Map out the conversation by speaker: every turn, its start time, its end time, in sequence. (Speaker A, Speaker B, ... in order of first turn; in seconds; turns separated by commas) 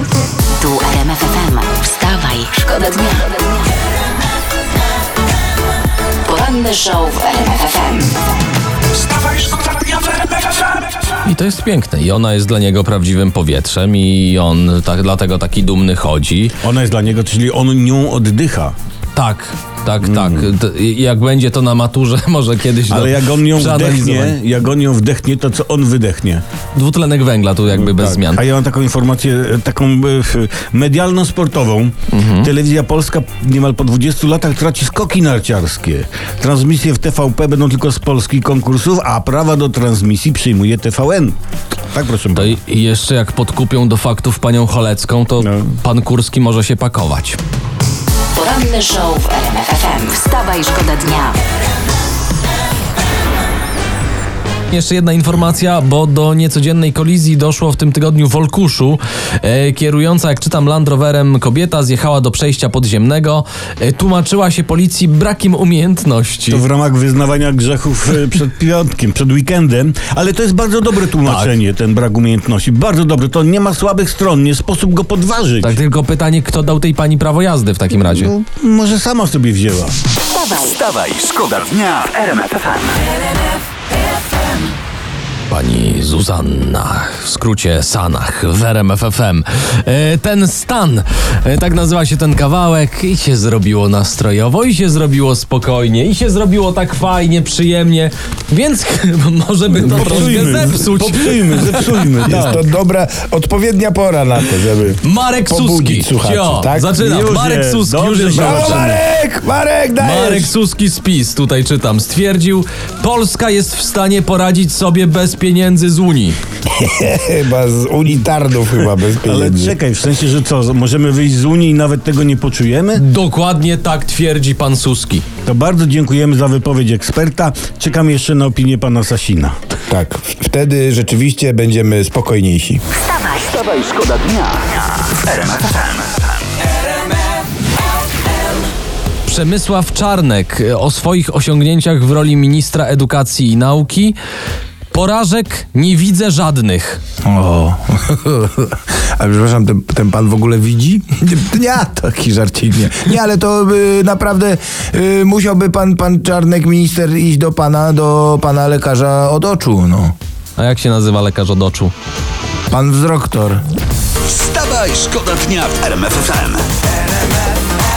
Speaker A: 0.6-3.6, Speaker A: 6.2-8.2, Speaker B: 11.2-16.6, Speaker C: 16.6-18.7, Speaker B: 19.1-24.4, Speaker C: 20.0-20.5, Speaker C: 22.9-26.4, Speaker B: 26.7-28.4, Speaker C: 27.7-41.4, Speaker B: 32.1-32.5, Speaker C: 41.9-42.6, Speaker B: 42.3-47.4, Speaker C: 45.4-45.7, Speaker A: 48.3-51.4, Speaker B: 54.7-66.6, Speaker C: 66.5-75.8, Speaker B: 71.2-71.5, Speaker B: 75.6-78.3, Speaker C: 78.0-79.9, Speaker A: 80.3-80.8, Speaker D: 80.6-83.0, Speaker B: 85.5-102.4, Speaker C: 99.8-102.6, Speaker E: 102.2-106.9, Speaker B: 105.0-108.9, Speaker C: 106.9-109.0, Speaker E: 108.3-110.5, Speaker B: 110.0-116.4, Speaker E: 116.7-119.8, Speaker C: 119.2-123.0, Speaker B: 122.9-125.2, Speaker C: 125.5-129.6, Speaker E: 129.9-132.8, Speaker D: 133.1-136.2, Speaker B: 139.3-144.2, Speaker B: 144.9-147.0, Speaker E: 147.3-160.2, Speaker B: 160.6-161.9, Speaker E: 162.7-163.6, Speaker D: 164.2-166.7